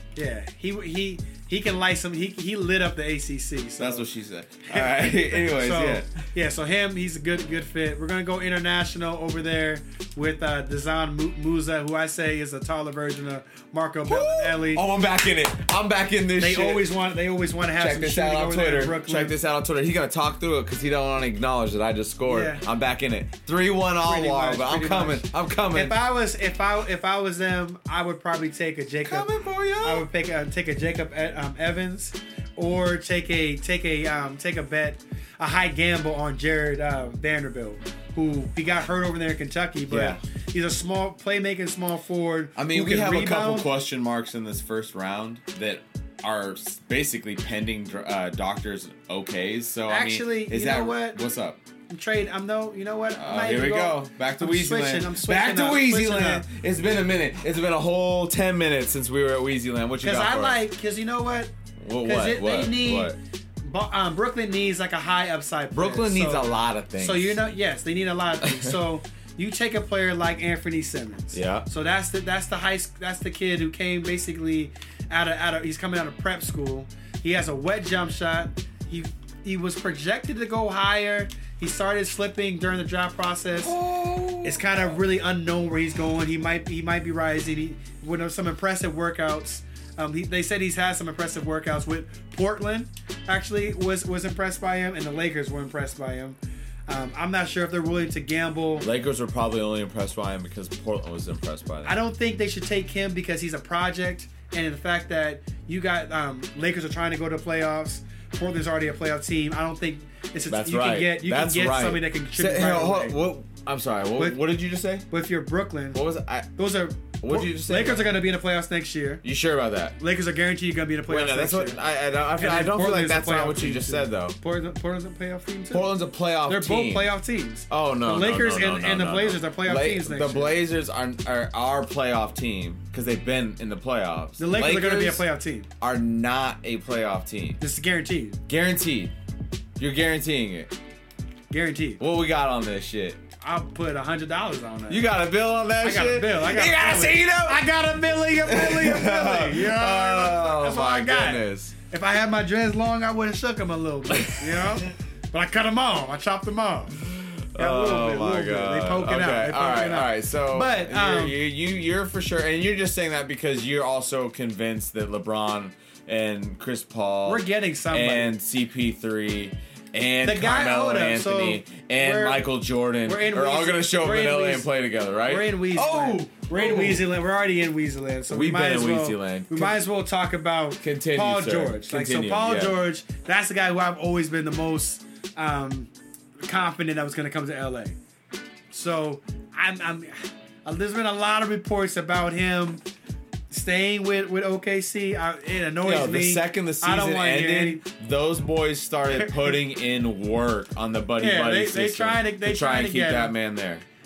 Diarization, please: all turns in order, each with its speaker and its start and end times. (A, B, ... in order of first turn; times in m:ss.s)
0:00.2-0:04.1 A
0:03.8-0:06.1 B
0:04.7-0:14.9 A
0:14.0-0:17.0 B
0:16.4-0:19.4 A
0:17.7-0:26.0 B
0:22.3-0:22.6 A
0:24.0-0:29.3 A
0:29.0-0:30.1 B
0:29.8-0:43.7 A
0:39.9-0:40.2 B
0:42.6-0:51.6 B
0:49.9-0:51.2 A
0:51.9-0:56.5 A
0:53.2-1:00.6 B
1:00.0-1:23.8 A
1:01.8-1:03.2 B
1:05.7-1:07.4 B
1:08.4-1:08.8 B
1:11.3-1:11.7 B
1:23.6-1:25.0 B
1:24.4-1:38.9 A
1:38.8-1:42.0 B
1:41.8-1:53.2 A
1:50.5-1:55.1 B
1:55.1-1:56.0 A
1:55.9-1:56.5 B
1:56.6-1:59.2 A
1:57.2-1:58.2 B
1:59.2-2:00.0 B
2:00.0-2:01.8 A
2:01.1-2:04.4 B
2:02.3-2:10.6 A
2:05.7-2:07.1 B
2:07.7-2:15.2 B
2:14.4-2:15.7 A
2:15.8-2:17.6 B
2:17.6-2:18.4 A
2:18.5-2:19.1 B
2:19.8-2:20.7 B
2:21.5-2:22.0 A
2:22.0-2:23.2 B
2:23.4-2:25.1 A
2:24.9-2:31.7 B
2:25.8-2:37.0 A
2:34.2-2:34.6 B
2:37.0-2:57.1 B
2:37.6-2:41.4 A
2:47.3-2:48.4 A
2:50.2-2:52.5 A
2:53.0-2:54.7 A
2:55.3-3:05.9 A
2:58.3-2:59.8 B
3:00.8-3:02.8 B
3:06.4-3:08.0 A
3:08.7-3:12.8 A
3:13.5-3:17.8 A
3:15.8-3:23.8 B
3:21.2-3:23.3 A